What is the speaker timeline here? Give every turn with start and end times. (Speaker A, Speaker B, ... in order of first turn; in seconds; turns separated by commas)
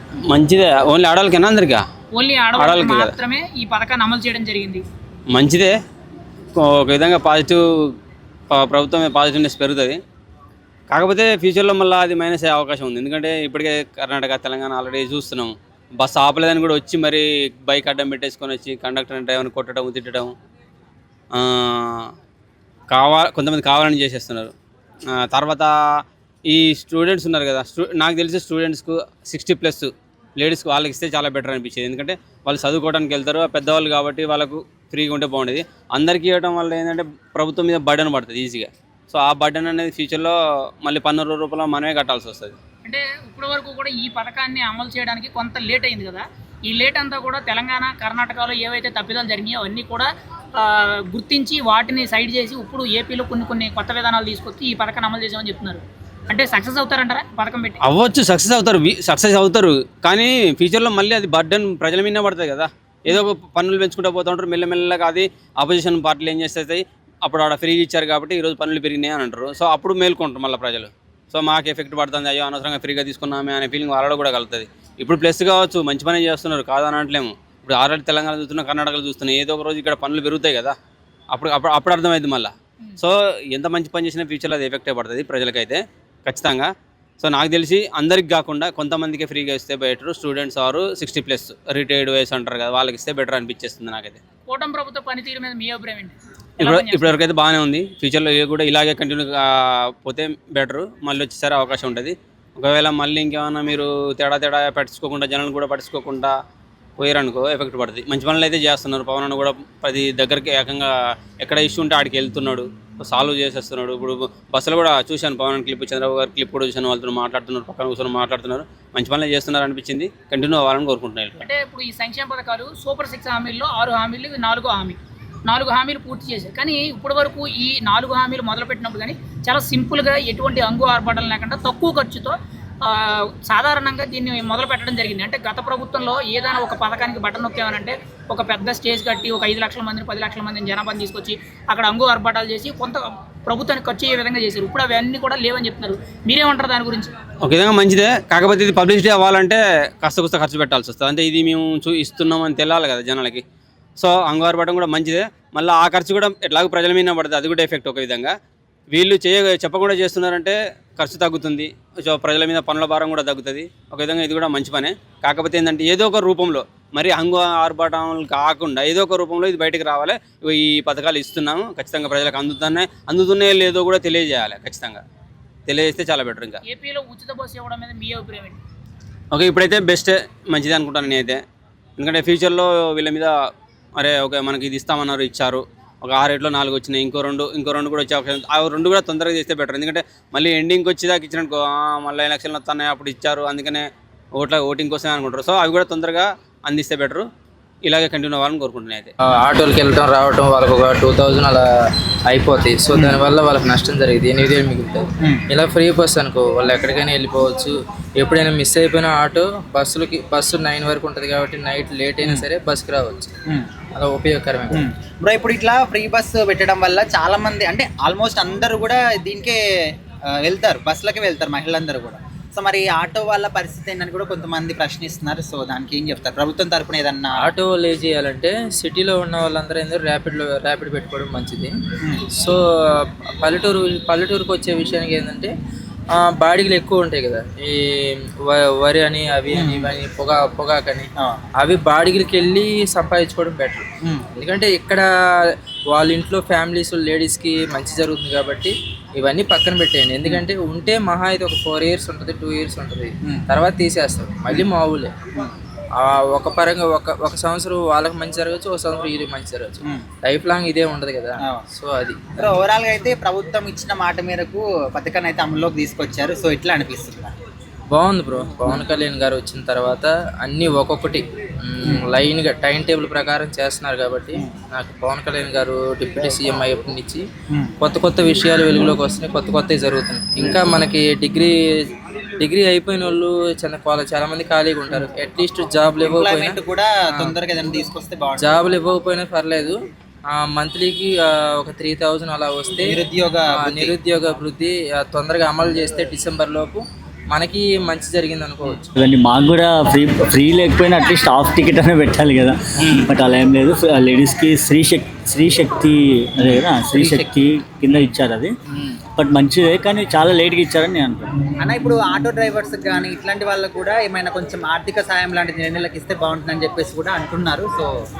Speaker A: 0.3-1.8, Speaker B: 2.2-4.8, Speaker A: 2.6-3.1, Speaker A: 5.3-5.8, Speaker A: 6.6-7.9, Speaker A: 8.5-10.0, Speaker A: 10.9-20.3, Speaker A: 21.4-22.1, Speaker A: 22.9-24.5, Speaker A: 25.2-25.7, Speaker A: 26.5-42.5, Speaker B: 42.9-57.8, Speaker A: 57.9-80.8, Speaker A: 81.3-86.7, Speaker A: 87.2-94.2, Speaker B: 94.5-97.2, Speaker A: 96.6-106.3, Speaker A: 107.0-110.9, Speaker A: 111.4-121.5, Speaker B: 121.4-147.1, Speaker A: 147.4-153.4, Speaker A: 154.0-158.3, Speaker A: 158.9-175.0, Speaker A: 175.7-176.6, Speaker B: 176.7-178.6, Speaker A: 179.3-181.4, Speaker A: 182.0-183.3, Speaker A: 184.0-197.3, Speaker A: 197.8-199.1, Speaker C: 199.3-201.7, Speaker C: 202.3-213.3, Speaker D: 202.9-203.2, Speaker D: 212.2-212.5, Speaker C: 214.0-214.9, Speaker D: 214.7-219.6, Speaker D: 220.4-227.5, Speaker C: 227.4-231.7, Speaker C: 232.4-235.5, Speaker C: 236.2-243.8, Speaker D: 239.5-239.9, Speaker C: 244.4-255.1, Speaker C: 256.0-262.5, Speaker D: 262.4-267.3, Speaker C: 267.9-277.3, Speaker C: 277.8-286.6, Speaker D: 285.9-288.6, Speaker C: 288.4-289.8, Speaker C: 290.3-293.0, Speaker D: 292.8-294.0, Speaker C: 293.6-298.9, Speaker E: 298.9-308.5, Speaker E: 309.2-311.3, Speaker D: 311.6-317.9